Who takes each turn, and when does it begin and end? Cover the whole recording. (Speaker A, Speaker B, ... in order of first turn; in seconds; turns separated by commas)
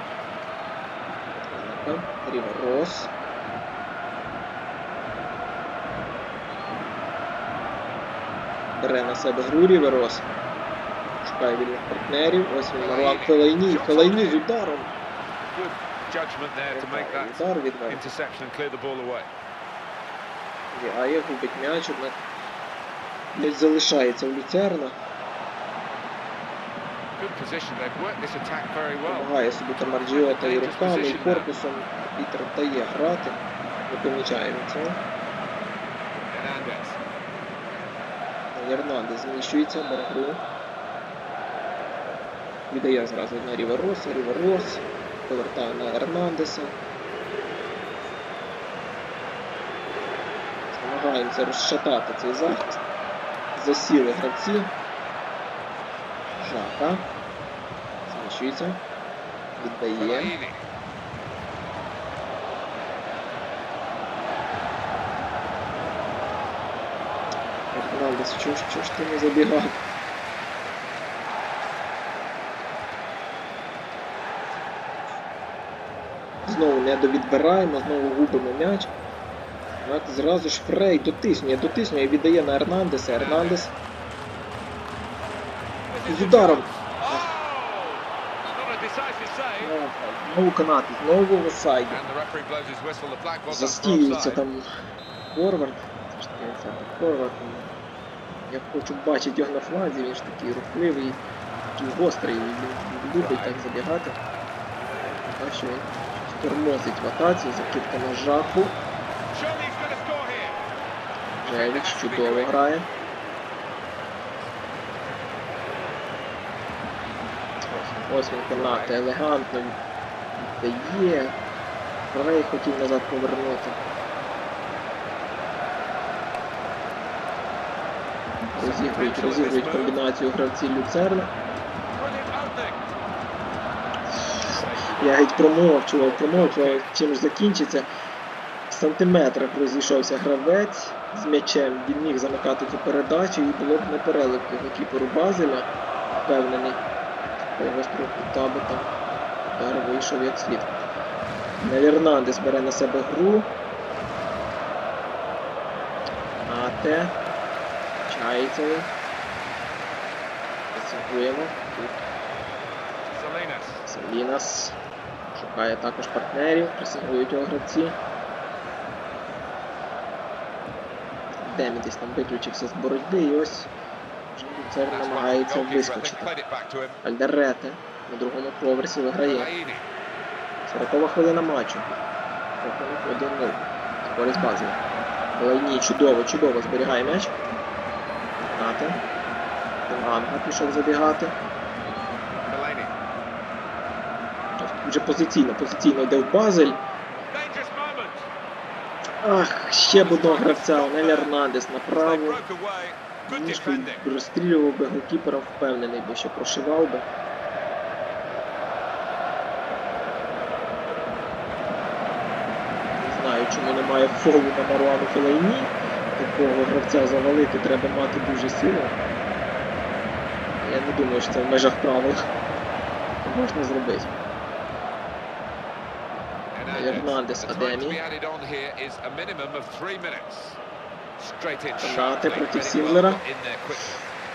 Speaker A: 1.3-3.1, Speaker A: 8.8-10.3, Speaker A: 11.2-14.9, Speaker B: 12.8-14.4, Speaker B: 15.5-19.3, Speaker A: 16.7-18.1, Speaker A: 20.7-22.2, Speaker A: 23.3-24.9, Speaker B: 27.2-29.3, Speaker A: 29.0-35.0, Speaker B: 30.0-31.5, Speaker B: 36.3-37.0, Speaker A: 38.5-40.4, Speaker A: 42.7-46.8, Speaker A: 50.7-52.8, Speaker A: 53.5-54.7, Speaker A: 56.4-57.1, Speaker A: 58.1-58.8, Speaker A: 59.6-60.3, Speaker B: 60.0-60.7, Speaker A: 67.7-69.8, Speaker A: 76.4-78.9, Speaker A: 79.8-83.7, Speaker B: 83.1-83.7, Speaker B: 85.9-89.7, Speaker A: 86.0-87.3, Speaker A: 89.6-92.0, Speaker B: 91.9-94.4, Speaker A: 93.5-94.6, Speaker A: 95.3-97.7, Speaker A: 98.4-101.2, Speaker A: 101.8-104.2, Speaker B: 103.2-103.6, Speaker A: 105.3-108.8, Speaker B: 109.3-110.6, Speaker A: 111.4-112.9, Speaker B: 111.4-112.5, Speaker A: 117.7-119.8, Speaker B: 118.5-119.0, Speaker A: 120.4-121.4, Speaker A: 122.1-123.8, Speaker A: 128.5-131.3, Speaker B: 128.6-130.0, Speaker B: 131.9-132.9, Speaker A: 134.1-137.9, Speaker B: 134.3-136.8, Speaker A: 138.7-145.7, Speaker A: 146.2-146.8, Speaker A: 147.6-148.9, Speaker A: 149.4-150.8, Speaker A: 151.6-153.5, Speaker A: 156.4-157.2, Speaker A: 158.1-158.9, Speaker A: 160.7-162.0, Speaker B: 163.1-163.9, Speaker A: 163.8-164.8, Speaker A: 165.3-168.0, Speaker A: 171.4-173.7, Speaker A: 174.3-176.3, Speaker B: 174.9-177.0, Speaker A: 177.0-179.5, Speaker B: 179.2-179.8, Speaker A: 180.6-182.0, Speaker A: 182.6-184.8, Speaker A: 185.3-187.3, Speaker A: 188.5-189.0, Speaker A: 189.9-191.4, Speaker B: 192.4-192.9, Speaker A: 194.6-196.8, Speaker B: 197.3-198.3, Speaker A: 199.2-202.4, Speaker B: 199.8-201.3, Speaker B: 201.9-204.0, Speaker A: 203.2-207.1, Speaker A: 212.9-219.0, Speaker A: 220.6-222.2, Speaker A: 223.2-224.2, Speaker B: 226.5-230.6, Speaker A: 226.7-228.0, Speaker B: 231.2-234.0, Speaker A: 231.8-233.2